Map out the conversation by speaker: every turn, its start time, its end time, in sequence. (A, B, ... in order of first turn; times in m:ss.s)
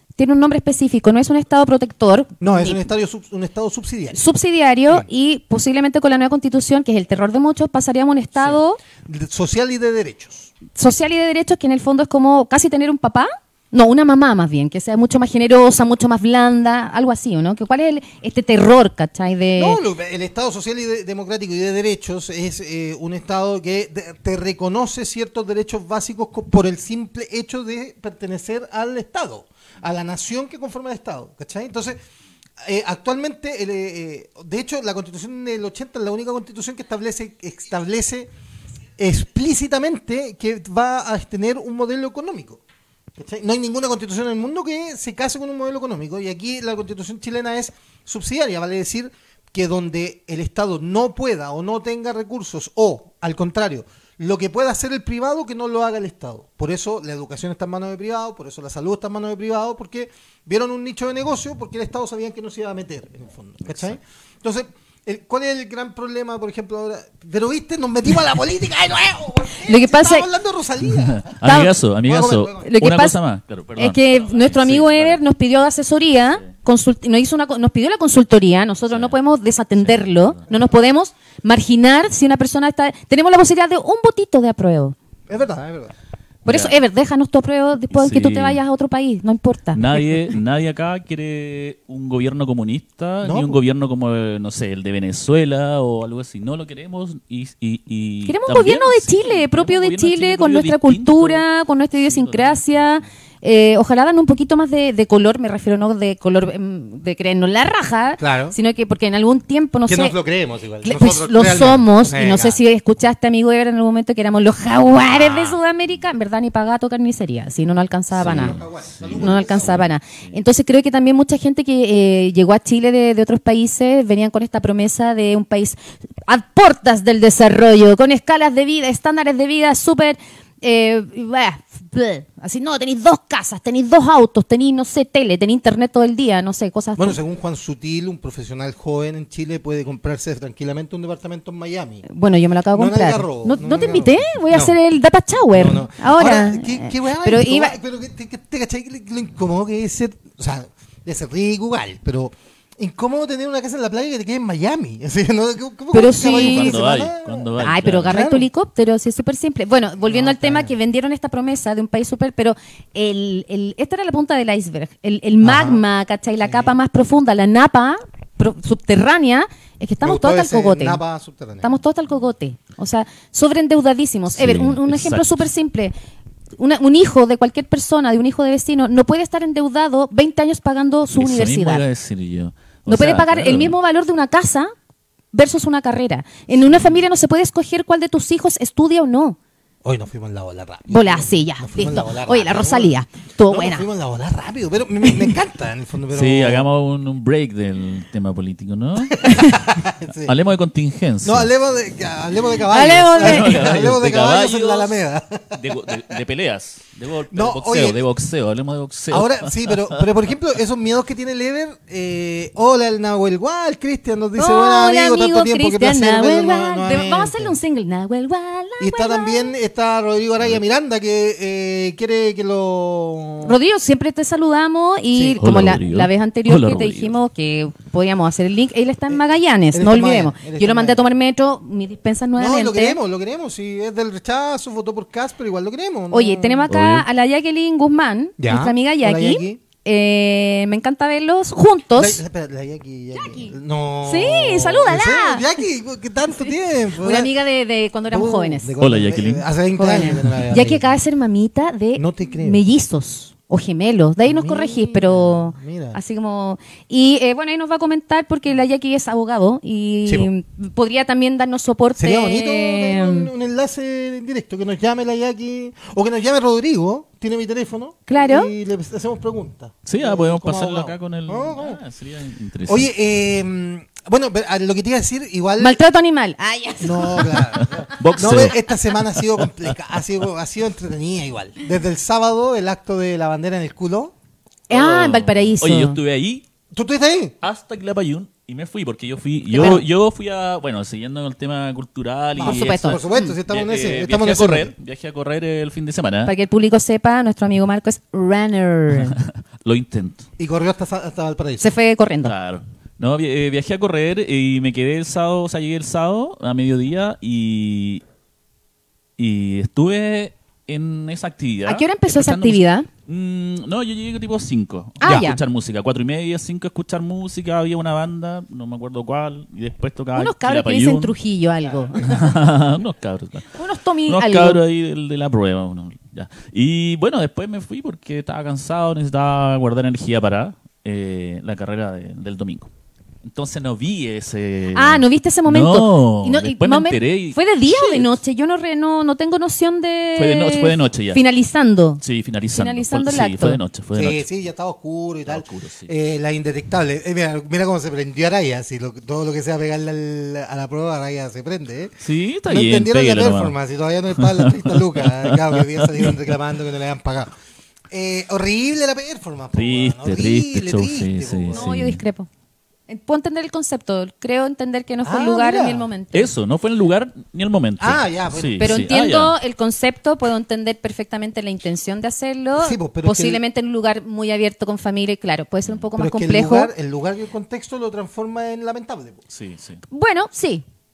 0:00.2-0:02.8 A
0:02.4-0:04.2 B
0:04.1-0:08.8 A
0:09.0-0:10.5 B
0:10.7-0:19.8 A
0:19.6-0:32.0 B
0:32.6-0:38.3 B
0:39.0-0:42.6 B
0:43.2-1:11.4 B
1:03.7-1:04.0 C
1:09.6-1:10.3 A
1:10.9-1:15.2 C
1:11.4-1:11.7 A
1:12.0-1:12.6 B
1:12.6-1:13.2 A
1:13.8-1:25.0 A
1:18.9-1:19.2 C
1:19.7-1:20.5 C
1:25.3-1:25.9 B
1:26.4-1:30.2 A
1:26.5-1:26.8 C
1:27.9-1:28.6 C
1:29.7-1:41.4 C
1:33.2-1:33.6 B
1:38.2-1:50.1 A
1:42.0-1:42.9 C
1:48.2-1:48.5 B
1:49.9-1:52.6 B
1:50.8-1:58.6 A
1:55.1-1:55.5 C
1:58.2-2:00.4 C
1:58.2-1:59.8 B
1:59.2-2:17.2 A
2:17.0-2:22.0 B
2:22.0-2:27.8 A
2:22.7-2:24.8 B
2:25.5-2:37.5 B
2:35.9-2:36.8 A
2:36.2-2:38.2 C
2:37.6-2:51.0 A
2:38.1-2:38.5 B
2:40.1-2:40.7 B
2:45.4-2:45.8 B
2:46.4-2:46.7 B
2:50.0-2:51.7 B
2:51.6-2:55.9 A
2:54.4-2:55.4 C
2:56.6-3:01.8 A
3:01.2-3:03.7 C
3:02.9-3:04.7 A
3:05.3-3:09.4 A
3:06.7-3:07.0 C
3:09.8-3:16.7 B
3:10.9-3:13.8 A
3:16.1-3:19.6 C
3:19.1-3:20.3 B
3:20.2-3:21.5 C
3:21.2-3:25.6 B
3:22.7-3:23.6 A
3:22.9-3:25.0 C
3:25.5-3:30.0 C
3:27.3-3:28.0 B
3:29.1-3:37.6 B
3:34.4-3:39.5 A
3:38.8-3:43.6 B
3:43.4-3:53.0 A
3:45.1-3:45.4 B
3:45.4-3:47.2 C
3:49.1-3:51.0 B
3:52.4-3:56.7 B
3:56.1-4:02.2 A
3:56.7-3:57.0 C
3:58.4-3:59.6 B
4:02.0-4:07.3 B
4:03.1-4:03.5 A
4:04.0-4:05.4 A
4:07.0-4:08.7 A
4:08.1-4:11.0 B
4:08.8-4:09.5 C
4:09.7-4:23.3 A
4:12.0-4:12.6 B
4:14.3-4:16.0 B
4:22.0-4:31.8 B
4:28.1-4:28.5 A
4:29.8-4:32.9 C
4:32.6-4:35.8 B
4:35.6-4:37.8 A
4:36.8-4:44.1 B
4:37.6-4:38.6 C
4:39.1-4:39.5 C
4:44.7-4:46.0 A
4:44.7-4:46.4 C
4:46.7-4:47.3 B
4:47.4-4:56.3 C
4:49.5-4:49.8 A
4:52.4-4:54.7 B
4:52.4-4:53.4 A
4:56.2-4:59.2 A
4:59.1-5:00.2 C
5:00.4-5:01.7 B
5:01.6-5:02.3 A
5:02.2-5:08.0 C
5:09.2-5:21.1 C
5:11.6-5:12.9 A
5:15.0-5:15.4 A
5:15.0-5:15.3 B
5:20.2-5:22.2 A
5:22.0-5:23.6 C
5:23.5-5:24.6 A
5:24.1-5:32.7 C
5:33.2-5:38.2 C
5:34.7-5:42.0 A
5:40.2-5:41.2 C
5:42.0-5:44.2 C
5:42.5-5:43.6 A
5:43.9-5:51.9 B
5:45.2-5:45.9 C
5:52.0-5:53.5 C
5:52.4-5:57.3 B
5:54.1-5:56.2 C
5:57.9-6:01.7 B
5:59.5-6:02.0 C
6:01.5-6:02.3 A
6:02.9-6:06.3 A
6:05.0-6:05.9 B
6:06.1-6:09.3 C
6:07.8-6:08.8 B
6:08.6-6:16.7 A
6:12.6-6:13.4 B
6:16.0-6:19.2 B
6:19.3-6:19.8 C
6:19.9-6:20.6 A